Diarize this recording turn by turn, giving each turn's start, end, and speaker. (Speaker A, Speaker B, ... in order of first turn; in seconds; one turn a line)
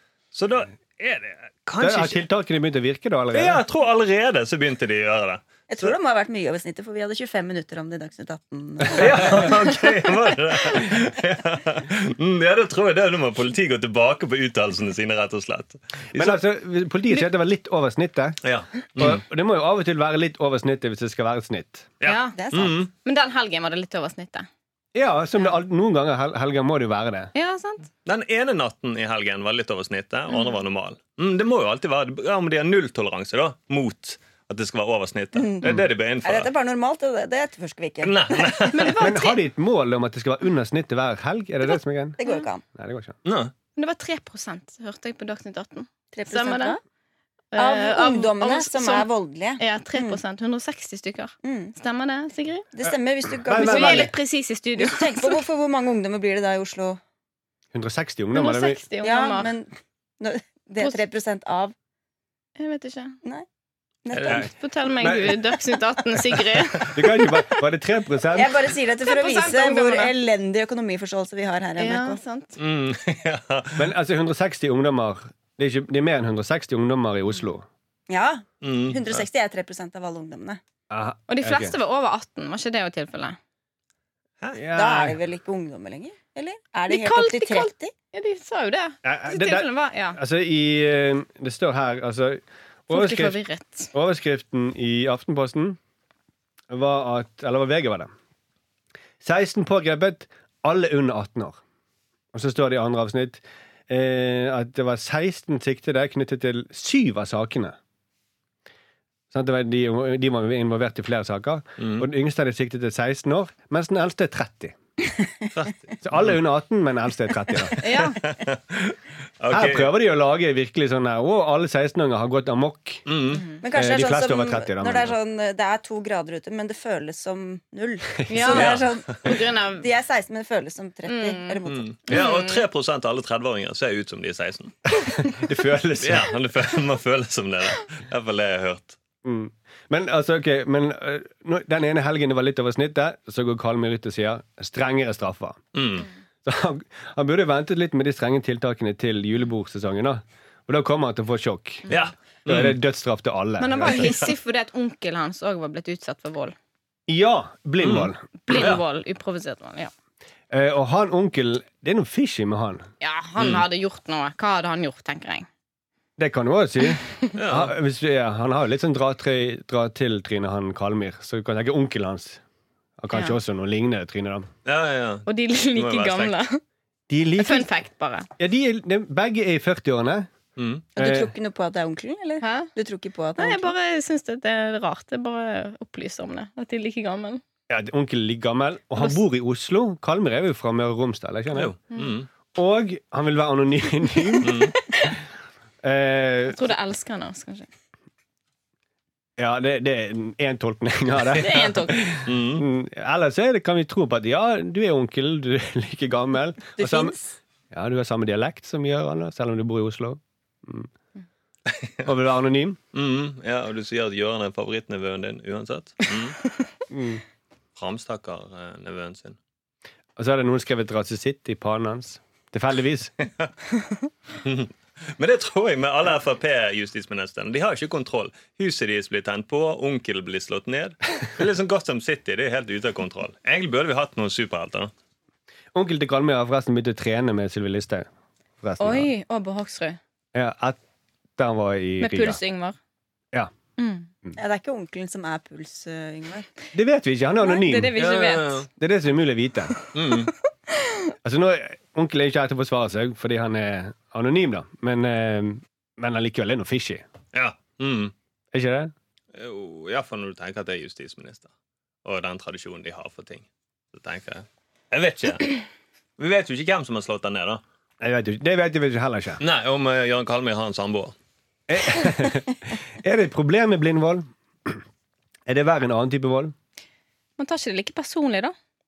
Speaker A: 0.3-2.2
Speaker B: 1.8-3.6
Speaker A: 3.3-5.9
Speaker C: 5.7-9.8
Speaker A: 8.9-16.4
Speaker B: 16.1-18.4
Speaker A: 18.4-19.2
Speaker B: 19.0-21.9
Speaker A: 22.0-22.9
Speaker D: 22.0-24.5
Speaker C: 22.4-22.8
Speaker B: 24.9-27.3
Speaker D: 27.4-27.9
Speaker A: 28.1-36.5
Speaker C: 35.4-38.8
Speaker A: 38.0-39.0
Speaker D: 38.7-39.4
Speaker B: 39.0-42.2
Speaker C: 42.2-42.6
Speaker B: 42.7-43.1
Speaker A: 43.2-43.5
Speaker D: 43.8-46.8
Speaker C: 46.1-46.8
Speaker D: 47.5-49.1
Speaker C: 47.6-50.2
Speaker D: 49.6-52.7
Speaker C: 51.4-51.8
Speaker C: 52.7-54.1
Speaker B: 53.4-54.1
Speaker D: 53.5-55.4
Speaker C: 54.8-57.0
Speaker B: 57.7-58.8
Speaker D: 58.3-59.5
Speaker C: 59.0-61.8
Speaker D: 62.6-63.2
Speaker C: 64.0-64.5
Speaker A: 64.1-64.5
Speaker D: 64.3-67.3
Speaker B: 65.0-65.4
Speaker B: 66.9-68.7
Speaker C: 68.3-72.2
Speaker D: 69.0-70.1
Speaker D: 71.8-72.6
Speaker A: 72.6-73.9
Speaker B: 73.8-77.7
Speaker C: 78.1-80.6
Speaker A: 78.6-79.2
Speaker B: 80.9-81.8
Speaker D: 81.3-83.4
Speaker B: 84.5-85.2
Speaker C: 84.7-87.9
Speaker D: 86.9-90.2
Speaker B: 89.0-93.4
Speaker D: 92.9-93.9
Speaker B: 93.9-95.8
Speaker B: 96.7-98.1
Speaker B: 99.2-101.6
Speaker B: 102.3-107.8
Speaker B: 109.3-114.8
Speaker A: 111.8-112.1
Speaker A: 115.5-116.3
Speaker B: 116.0-118.0
Speaker D: 117.8-118.2
Speaker A: 118.2-119.9
Speaker B: 119.5-123.0
Speaker A: 123.1-123.5
Speaker D: 123.3-123.6
Speaker C: 123.6-132.0
Speaker B: 123.7-125.2
Speaker D: 128.3-129.9
Speaker A: 128.4-129.0
Speaker D: 131.1-132.7
Speaker A: 131.7-134.7
Speaker B: 135.0-136.4
Speaker A: 136.0-139.0
Speaker B: 139.2-145.6
Speaker A: 145.7-146.1
Speaker B: 146.4-151.9
Speaker A: 151.9-152.8
Speaker B: 152.5-154.1
Speaker D: 153.6-156.6
Speaker A: 153.8-154.3
Speaker B: 157.1-158.8
Speaker A: 157.8-158.8
Speaker D: 158.5-159.9
Speaker B: 160.5-162.8
Speaker D: 163.0-165.5
Speaker A: 163.4-163.7
Speaker B: 166.2-172.4
Speaker A: 167.3-167.7
Speaker B: 173.0-174.5
Speaker D: 173.1-173.4
Speaker A: 174.7-176.4
Speaker D: 175.3-176.6
Speaker B: 177.1-177.7
Speaker D: 177.4-178.3
Speaker B: 178.4-180.3
Speaker A: 180.6-180.9
Speaker B: 181.0-181.3
Speaker C: 181.0-183.7
Speaker D: 182.4-182.7
Speaker D: 183.4-187.4
Speaker B: 187.7-191.7
Speaker A: 191.5-192.3
Speaker B: 192.5-194.8
Speaker A: 194.4-194.8
Speaker B: 195.8-196.7
Speaker D: 196.5-197.7
Speaker B: 199.4-207.2
Speaker A: 201.3-202.7
Speaker D: 201.4-202.1
Speaker C: 206.8-207.3
Speaker B: 207.7-210.9
Speaker A: 211.7-212.1
Speaker B: 212.1-212.8
Speaker A: 212.9-216.4
Speaker B: 216.9-217.2
Speaker A: 217.8-219.4
Speaker B: 220.2-223.1
Speaker A: 224.4-234.9
Speaker B: 235.7-238.1
Speaker B: 238.6-239.1
Speaker D: 238.8-240.0
Speaker B: 240.3-240.8
Speaker B: 241.4-242.4
Speaker D: 242.0-242.8
Speaker D: 243.8-244.1
Speaker C: 244.4-246.5
Speaker B: 246.7-247.9
Speaker D: 247.4-248.7
Speaker A: 248.0-248.7
Speaker B: 248.8-249.8
Speaker A: 249.9-250.3
Speaker B: 251.2-257.0
Speaker A: 257.3-258.1
Speaker B: 258.5-258.9
Speaker A: 259.3-261.5
Speaker A: 262.1-265.6
Speaker A: 266.2-267.6
Speaker B: 268.0-269.4
Speaker A: 269.4-271.1
Speaker B: 271.7-274.8
Speaker B: 275.5-276.5
Speaker D: 277.4-278.5